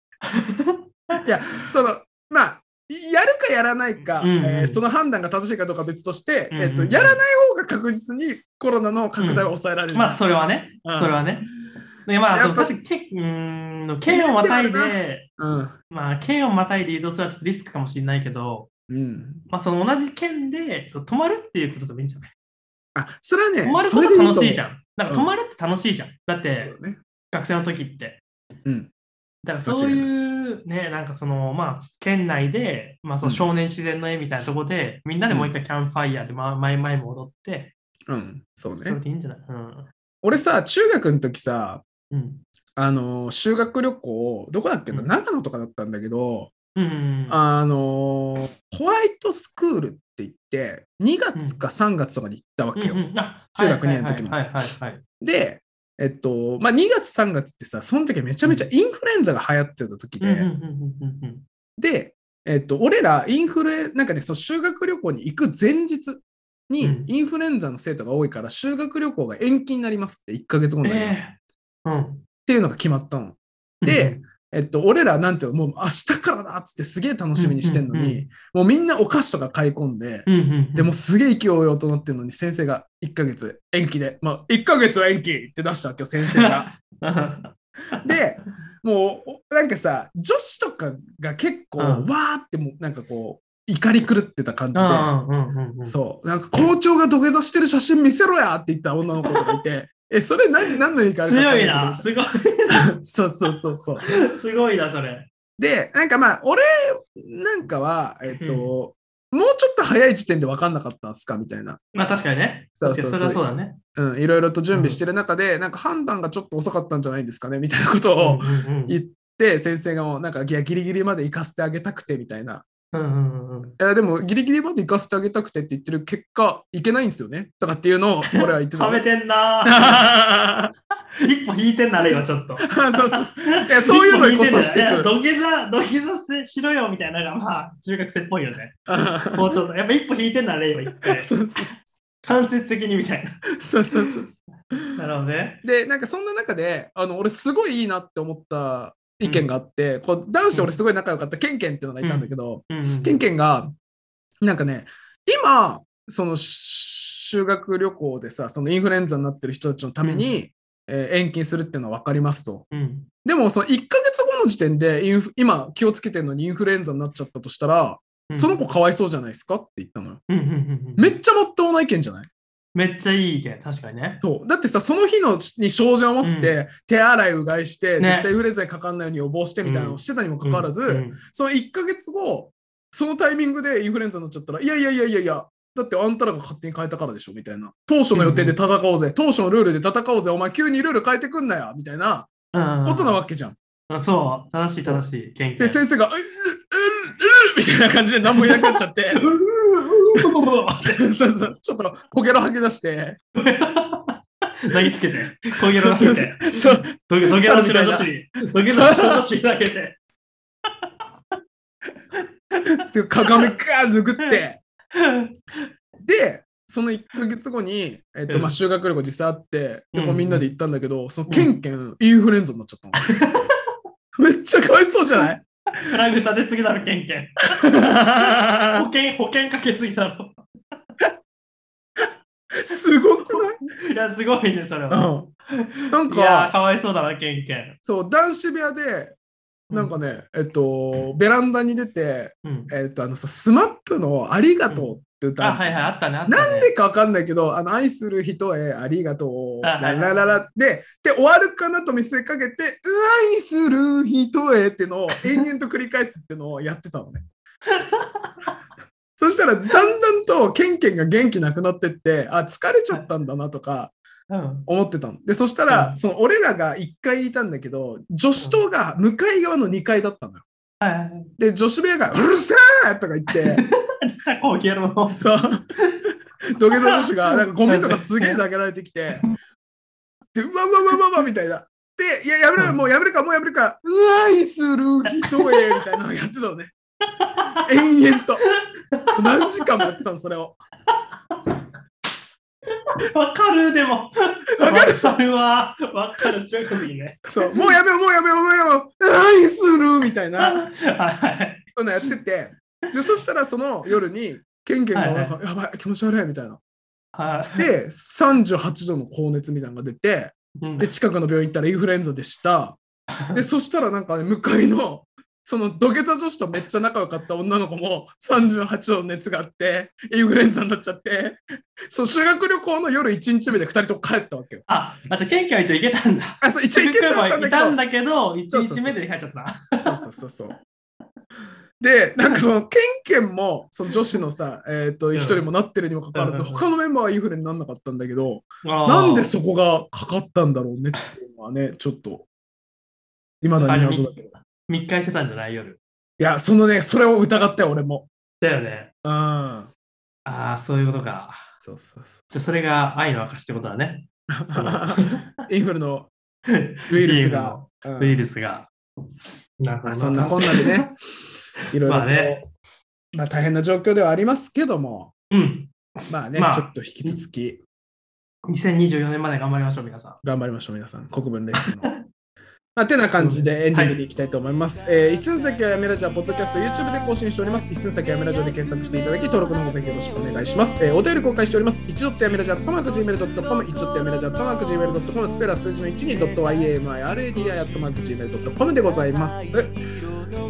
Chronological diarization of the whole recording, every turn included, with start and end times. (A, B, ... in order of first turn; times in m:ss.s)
0:00.3-0:01.2 A
0:01.2-0:10.2 B
0:04.2-0:04.8 A
0:06.5-0:07.2 A
0:09.2-0:11.5 A
0:10.8-0:11.2 B
0:12.0-0:15.3 A
0:12.3-0:12.7 B
0:14.0-0:15.7 B
0:15.9-0:18.7 A
0:18.9-0:19.4 B
0:19.5-0:22.3 A
0:22.9-0:25.3 B
0:23.6-0:26.7 A
0:26.6-0:27.0 B
0:27.3-0:28.2 A
0:29.4-0:37.7 A
0:29.6-0:30.1 B
0:35.3-0:35.5 B
0:38.1-0:39.0 B
0:38.8-0:39.9 A
0:40.2-0:41.8 B
0:42.1-0:42.4 A
0:42.8-0:46.5 B
0:46.7-0:47.4 A
0:47.3-0:54.4 B
0:52.8-0:55.0 A
0:55.2-1:00.5 B
1:00.2-1:01.4 A
1:01.8-1:11.2 B
1:06.8-1:07.1 A
1:10.8-1:12.2 A
1:12.4-1:26.7 B
1:13.8-1:14.2 A
1:17.4-1:18.2 A
1:20.2-1:20.9 A
1:26.3-1:28.1 A
1:28.0-1:35.1 B
1:31.8-1:32.1 A
1:34.7-1:36.0 A
1:35.8-1:42.1 B
1:39.2-1:39.6 A
1:41.2-1:42.9 A
1:42.7-1:44.1 B
1:44.0-1:45.3 A
1:45.6-1:51.8 B
1:48.3-1:48.7 A
1:51.9-1:53.8 A
1:52.8-1:53.4 B
1:53.9-2:02.6 B
1:54.7-1:55.0 A
1:58.2-1:59.0 A
2:02.9-2:03.8 A
2:03.8-2:09.0 B
2:08.2-2:10.1 A
2:09.6-2:10.7 B
2:11.2-2:21.5 A
2:12.6-2:15.1 B
2:18.9-2:19.6 B
2:20.9-2:21.8 B
2:22.2-2:24.1 A
2:23.6-2:24.4 B
2:25.0-2:25.6 A
2:25.6-2:33.7 B
2:32.0-2:33.2 A
2:34.4-2:42.6 B
2:40.0-2:40.3 A
2:42.7-2:43.1 A
2:43.2-2:50.2 B
2:48.3-2:48.6 A
2:50.3-2:51.2 A
2:51.0-2:52.3 B
2:52.7-2:54.2 A
2:54.2-3:12.3 B
2:56.2-2:56.6 A
2:58.0-2:58.3 A
2:59.6-3:01.2 A
3:08.1-3:08.6 A
3:12.5-3:13.2 A
3:12.8-3:13.6 B
3:13.9-3:15.8 A
3:15.6-3:19.3 B
3:18.3-3:21.0 A
3:19.8-3:23.2 B
3:23.4-3:30.0 A
3:25.5-3:29.3 B
3:32.7-3:34.6 B
3:34.9-3:35.3 A
3:36.0-3:43.2 B
3:38.3-3:38.6 A
3:39.9-3:40.5 A
3:43.0-3:43.6 A
3:44.1-3:45.9 B
3:45.8-3:47.4 A
3:47.5-3:48.8 B
3:48.2-3:50.4 A
3:52.5-3:53.6 B
3:53.2-3:57.8 A
3:54.9-3:55.3 B
3:55.9-3:56.5 B
3:57.8-3:59.2 B
3:59.7-4:00.0 A
3:59.7-4:17.2 B
4:02.4-4:02.7 A
4:04.7-4:06.7 A
4:09.6-4:10.4 A
4:17.8-4:18.5 A
4:19.2-4:23.9 B
4:24.3-4:24.7 A
4:24.6-4:30.4 B
4:25.7-4:26.0 A
4:30.8-4:31.3 A
4:31.4-4:33.6 B
4:33.4-4:35.2 A
4:35.1-4:35.6 B
4:36.5-4:39.2 B
4:36.9-4:38.4 A
4:40.3-4:46.7 B
4:42.6-4:42.8 A
4:45.1-4:45.8 A
4:47.2-4:47.6 A
4:47.6-4:48.5 B
4:49.0-4:49.9 A
4:49.1-4:50.6 B
4:51.3-4:51.6 A
4:53.0-4:57.7 A
4:54.6-4:55.2 B
4:57.2-5:00.7 B
5:00.4-5:01.6 A
5:01.7-5:06.6 B
5:04.9-5:05.4 A
5:07.1-5:07.7 A
5:07.6-5:12.8 B
5:10.6-5:10.9 A
5:13.3-5:24.6 B
5:24.7-5:30.0 A
5:26.4-5:27.8 B
5:28.5-5:29.0 B
5:29.8-5:30.6 B
5:31.8-5:42.2 B
5:35.1-5:35.4 A
5:36.1-5:36.7 A
5:38.6-5:39.3 A
5:43.4-5:44.3 B
5:43.6-5:45.8 A
5:46.2-5:48.1 B
5:48.4-5:48.9 A
5:49.0-5:49.7 B
5:50.2-5:51.4 A
5:51.6-5:52.2 B
5:52.3-5:55.3 A
5:54.3-5:56.1 B
5:56.4-5:58.7 A
5:56.9-5:58.3 B
5:59.6-6:00.9 A
5:59.8-6:00.9 B
6:01.7-6:02.4 B
6:01.8-6:02.4 A
6:03.1-6:05.1 B
6:05.3-6:05.7 A
6:06.1-6:07.6 B
6:06.3-6:07.2 A
6:08.4-6:10.2 A
6:10.2-6:11.9 B
6:11.6-6:12.0 A
6:12.8-6:29.7 B
6:13.2-6:14.0 A